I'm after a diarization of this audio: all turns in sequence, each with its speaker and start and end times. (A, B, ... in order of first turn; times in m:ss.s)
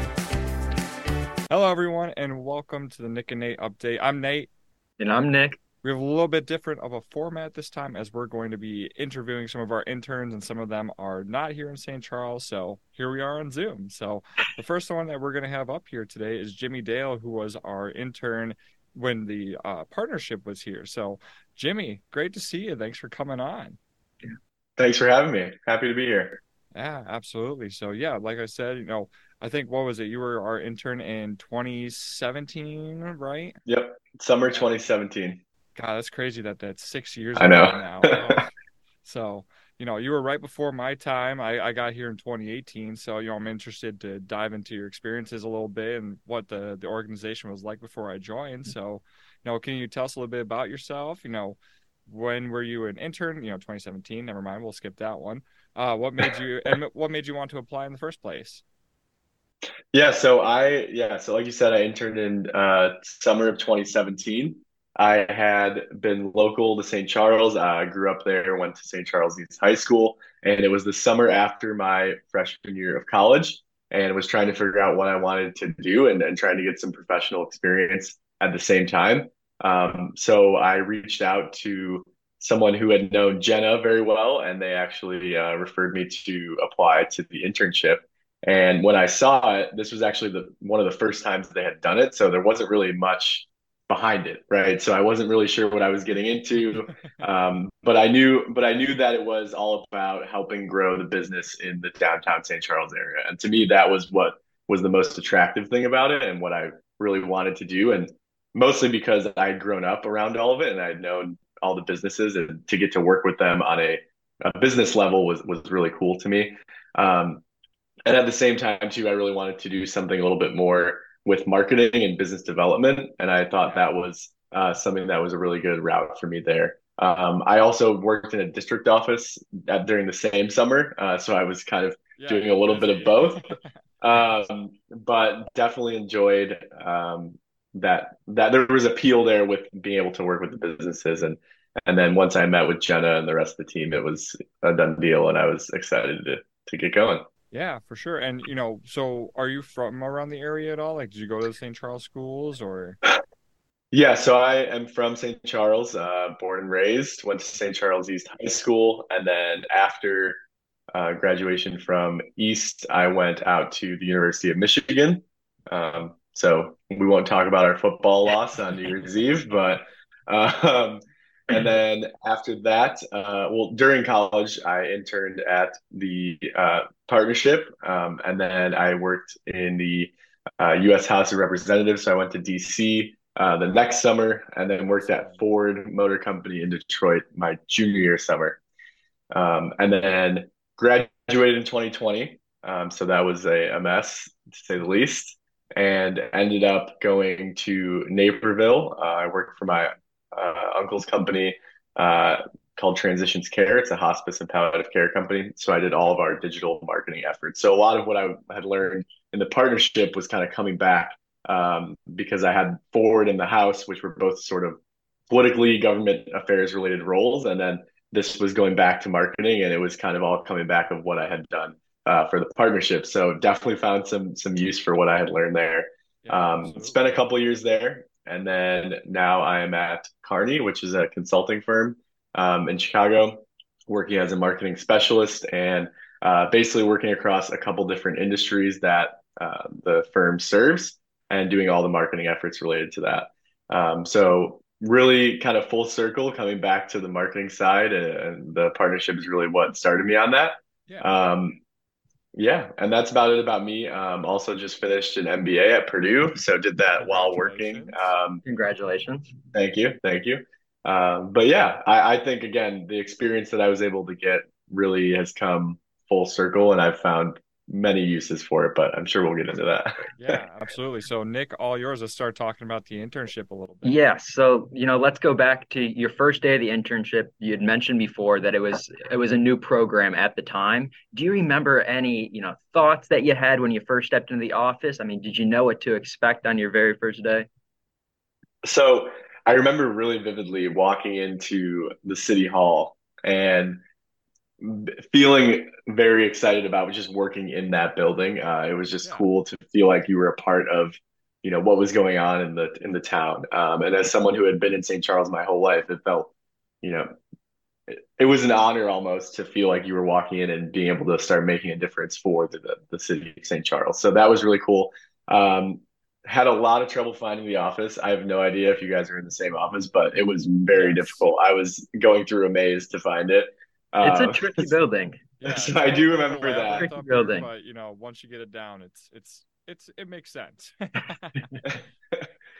0:01.5-0:04.5 A
0:05.0-0:05.6 B
0:05.8-0:23.8 A
0:24.8-0:26.4 C
0:26.7-0:33.5 A
0:33.6-0:35.4 C
0:35.8-0:38.5 A
0:37.4-0:38.4 C
0:39.0-0:58.6 A
0:59.9-1:57.4 C
1:58.0-2:13.5 C
2:03.6-2:03.9 A
2:12.2-2:13.6 A
2:14.0-2:27.2 C
2:27.5-2:33.0 A
2:33.9-2:40.4 C
2:40.9-3:08.6 C
3:05.1-3:05.4 A
3:09.3-3:34.8 C
3:35.3-4:11.6 C
3:46.2-3:47.2 A
4:12.3-4:18.4 C
4:17.0-4:18.1 A
4:18.4-4:19.3 B
4:19.5-4:30.1 C
4:30.2-4:33.9 A
4:33.8-4:47.5 B
4:48.6-4:53.8 C
4:54.6-5:06.3 C
5:06.8-5:07.1 C
5:07.9-5:24.7 C
5:20.7-5:21.3 A
5:24.0-5:25.2 B
5:25.4-5:31.4 A
5:25.4-5:26.9 C
5:26.7-5:27.5 B